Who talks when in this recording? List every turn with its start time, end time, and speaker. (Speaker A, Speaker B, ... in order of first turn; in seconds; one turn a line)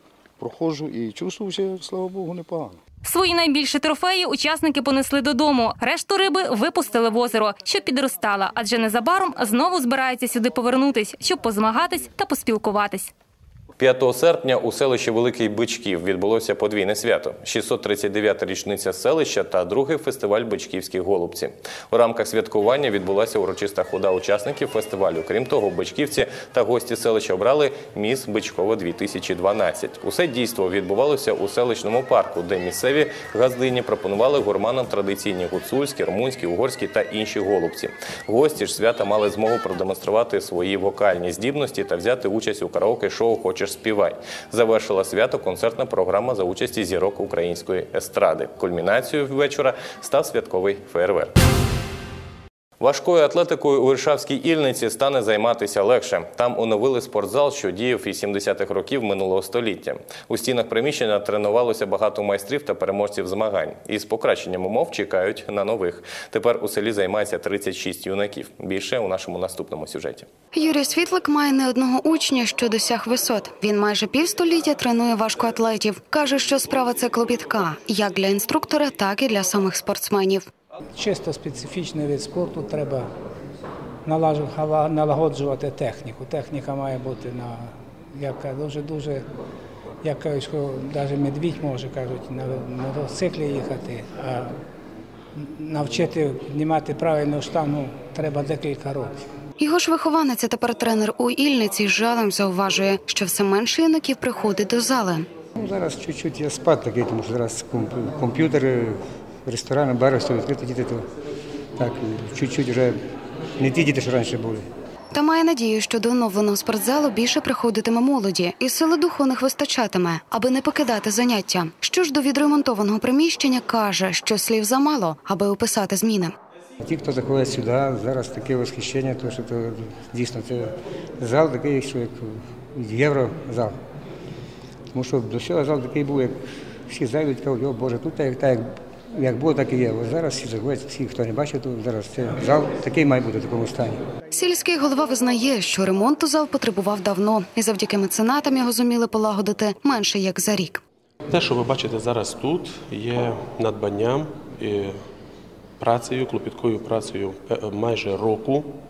Speaker A: 0.4-2.8
Speaker B: 3.0-13.1
Speaker C: 13.8-51.3
Speaker C: 52.8-70.3
Speaker D: 70.5-80.5
Speaker E: 81.0-83.1
Speaker E: 84.0-89.3
Speaker E: 90.0-94.6
Speaker E: 95.3-99.2
Speaker D: 99.6-105.3
Speaker F: 105.6-111.0
Speaker F: 111.8-113.0
Speaker F: 113.6-114.7
Speaker D: 115.1-126.3
Speaker F: 126.8-133.8
Speaker F: 134.9-144.0
Speaker D: 144.3-150.8
Speaker G: 151.3-155.0
Speaker G: 155.8-158.8